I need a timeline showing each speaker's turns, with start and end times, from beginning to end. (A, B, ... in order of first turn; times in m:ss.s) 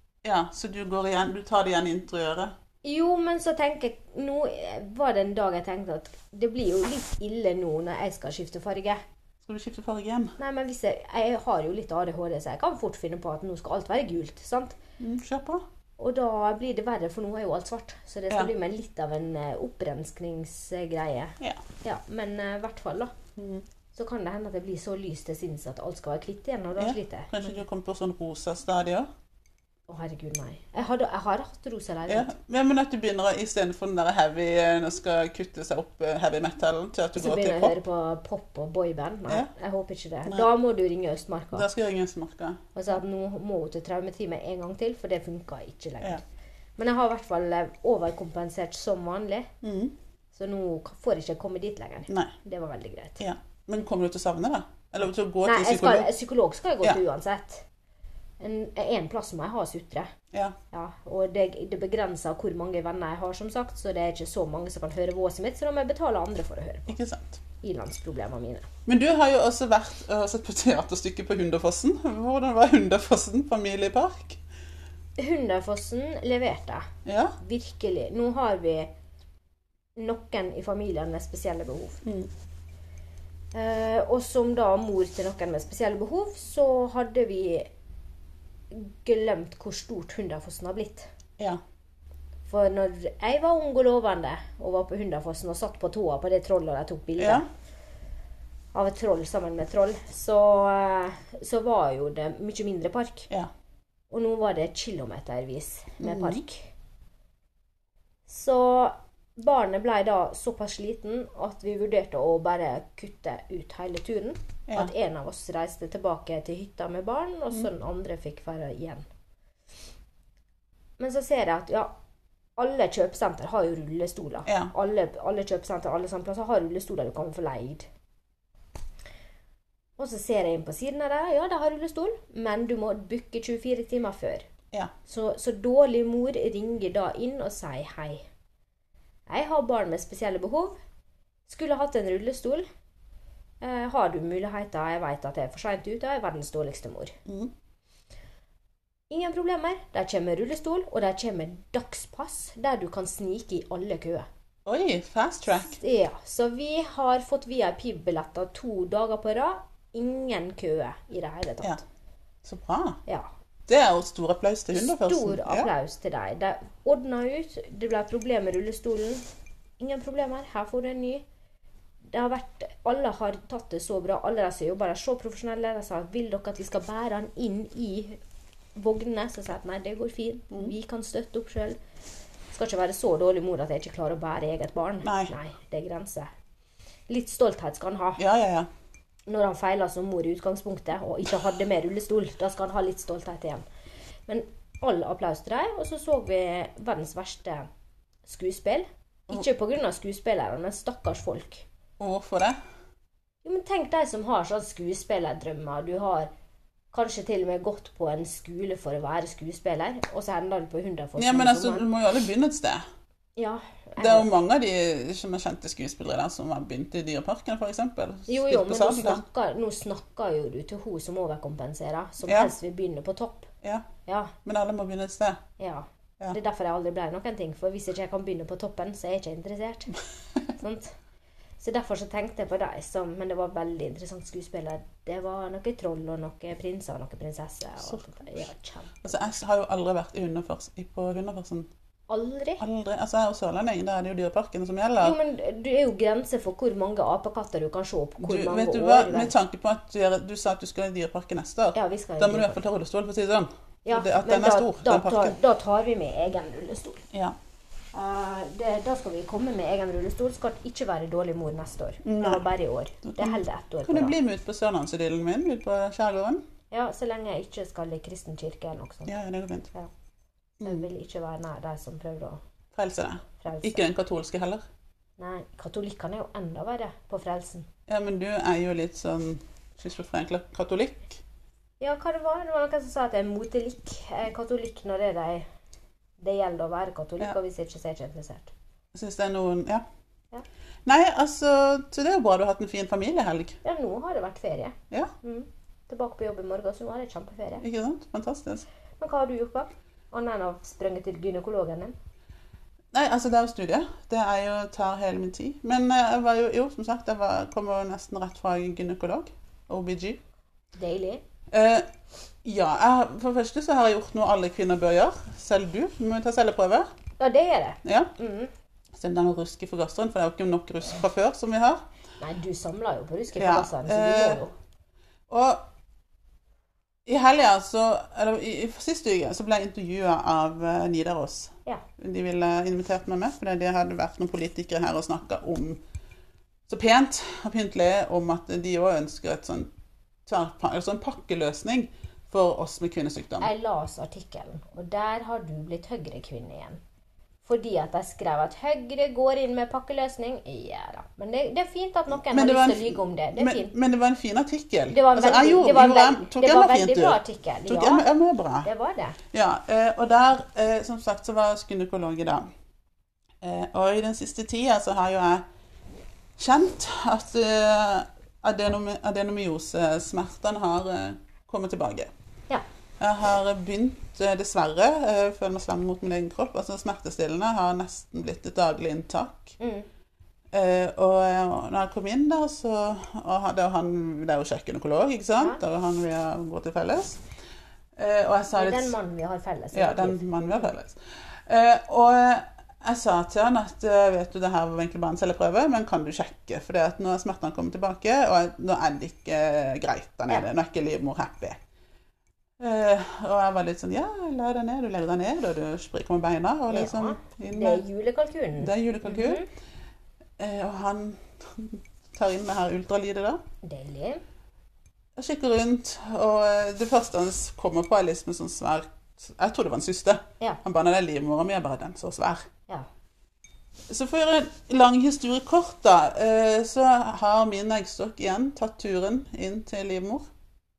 0:00.2-0:02.5 A
0:02.8-0:09.0 B
0:09.4-0:10.4 A
0:10.4-0:14.8 B
0:15.0-0:15.6 A
0:16.0-0:23.1 B
0:23.4-0:23.7 A
0:23.9-0:27.6 B
0:26.8-0:29.1 A
0:29.9-0:32.3 B
0:32.1-0:37.8 A
0:37.2-0:41.7 B
0:41.5-0:42.6 A
0:42.8-0:46.2 B
0:46.8-0:49.5 B
0:49.6-0:50.0 A
0:50.3-0:53.2 B
0:53.2-0:56.1 A
0:55.4-0:57.6 B
0:58.4-1:00.1 B
1:00.7-1:07.0 B
1:06.9-1:07.4 A
1:07.6-1:08.7 B
1:08.9-1:14.4 A
1:15.2-1:16.9 B
1:17.0-1:17.4 A
1:17.4-1:18.9 B
1:20.0-1:22.0 B
1:22.0-1:22.3 A
1:23.5-1:27.7 B
1:28.7-1:31.1 B
1:32.5-1:37.4 B
1:37.2-1:37.4 A
1:38.7-1:43.3 B
1:44.1-1:46.7 B
1:46.0-1:46.4 A
1:48.3-1:59.0 B
2:01.0-2:01.9 B
2:02.6-2:07.9 B
2:04.5-2:04.7 A
2:10.0-2:14.5 B
2:15.1-2:18.2 B
2:19.3-2:20.8 B
2:21.5-2:22.7 B
2:23.6-2:27.2 B
2:27.3-2:27.5 A
2:29.1-2:34.3 B
2:34.7-2:35.8 A
2:35.8-2:41.8 B
2:42.4-2:43.0 A
2:43.7-2:45.7 A
2:44.8-2:49.2 B
2:49.8-2:51.2 B
2:52.1-2:58.2 B
2:58.8-3:01.8 B
3:02.5-3:06.3 B
3:05.0-3:05.3 A
3:07.1-3:08.2 B
3:08.2-3:08.7 A
3:09.3-3:13.6 B
3:14.3-3:17.7 B
3:18.3-3:21.7 B
3:22.0-3:22.6 A
3:23.4-3:26.3 B
3:26.9-3:31.9 B
3:31.2-3:32.8 A
3:33.4-3:34.3 B
3:34.0-3:39.2 A
3:38.3-3:43.5 B
3:42.3-3:42.5 A
3:44.1-3:44.4 B
3:44.4-3:45.4 A
3:45.6-3:51.0 B
3:51.6-3:59.4 B
3:59.0-4:01.7 A
4:02.1-4:02.6 B
4:02.6-4:05.2 A
4:05.0-4:09.4 B
4:08.2-4:15.4 A
4:11.8-4:12.6 B
4:13.9-4:17.1 B
4:17.9-4:24.2 B
4:22.0-4:22.4 A
4:23.0-4:26.4 A
4:26.7-4:29.1 B
4:29.1-4:29.7 A
4:30.6-4:30.9 A
4:30.6-4:32.4 B
4:32.7-4:34.6 A
4:33.4-4:33.8 B
4:35.2-4:37.7 B
4:37.9-4:41.2 A
4:41.8-4:45.5 B
4:46.2-4:48.5 B
4:48.9-4:49.8 A
4:50.9-4:53.6 A
4:53.6-4:57.6 B
4:57.6-4:58.6 A
4:59.0-5:02.0 B
5:02.9-5:10.2 A
5:10.8-5:11.2 B
5:11.5-5:11.9 A
5:12.4-5:16.9 A
5:17.2-5:18.5 B
5:17.8-5:18.1 A
5:18.9-5:21.8 A
5:22.2-5:24.5 B
5:23.4-5:24.4 A
5:25.3-5:25.7 A
5:27.1-5:35.8 A
5:36.7-5:39.7 A
5:40.3-5:43.5 A
5:43.4-5:46.8 B
5:47.4-5:53.7 B
5:52.2-5:58.7 A
5:54.9-5:58.1 B
5:58.6-5:59.2 B
5:59.3-6:02.5 A
6:03.4-6:05.4 A
6:06.4-6:12.1 A
6:13.0-6:19.6 A
6:19.6-6:19.9 B
6:20.5-6:27.2 A
6:25.4-6:25.6 B
6:28.0-6:28.9 A
6:28.5-6:30.2 B
6:29.7-6:41.6 A
6:42.6-6:47.8 A
6:46.7-6:49.5 B
6:48.6-6:49.4 A
6:50.4-6:53.4 A
6:53.6-6:54.2 B
6:55.2-7:02.5 A
7:03.9-7:10.3 A